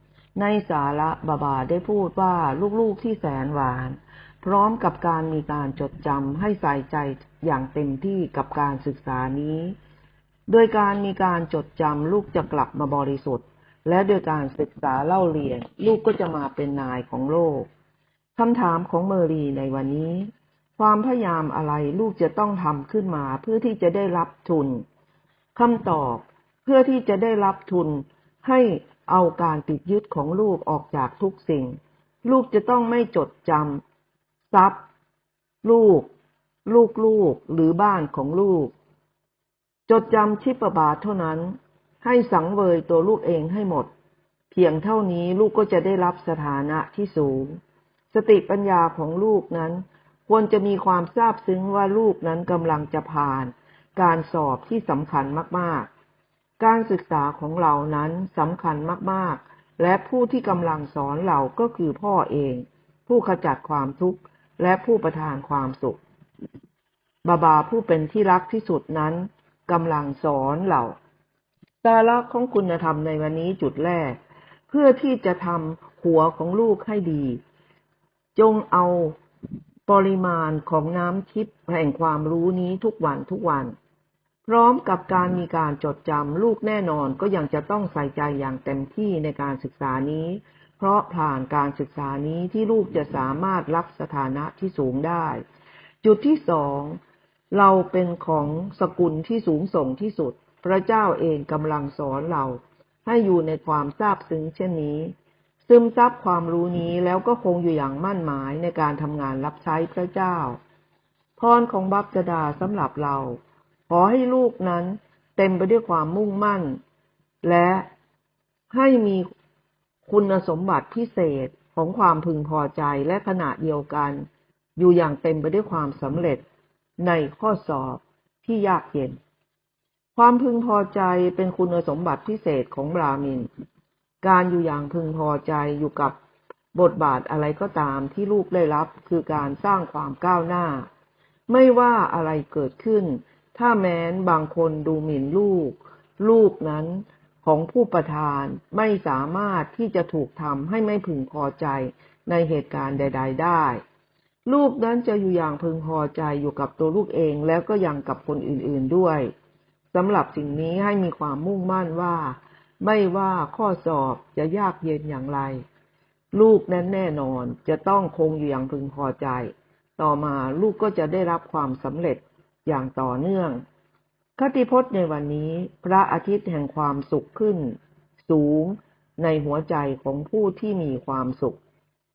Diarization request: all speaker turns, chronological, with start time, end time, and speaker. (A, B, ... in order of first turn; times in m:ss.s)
0:00.4-0:09.8 A
0:10.5-0:17.7 A
0:18.4-0:24.8 A
0:25.6-0:33.8 A
0:34.5-0:34.8 A
0:35.6-0:36.1 A
0:36.6-0:38.7 A
0:39.9-0:43.9 A
0:44.5-0:47.6 A
0:48.1-0:55.9 A
0:56.6-1:06.0 A
1:07.2-1:11.0 A
1:11.8-1:14.2 A
1:14.7-1:17.4 A
1:18.4-1:19.2 A
1:19.9-1:23.8 A
1:24.4-1:35.4 A
1:36.0-1:37.0 A
1:37.5-1:45.1 A
1:45.7-1:50.6 A
1:51.4-1:56.8 A
1:57.4-1:57.9 A
1:58.7-1:59.3 A
2:00.1-2:06.4 A
2:07.0-2:09.2 A
2:10.2-2:13.5 A
2:14.2-2:16.2 A
2:16.7-2:20.9 A
2:21.5-2:33.8 A
2:34.5-2:39.3 A
2:39.9-2:45.6 A
2:46.3-2:53.6 A
2:54.4-3:01.6 A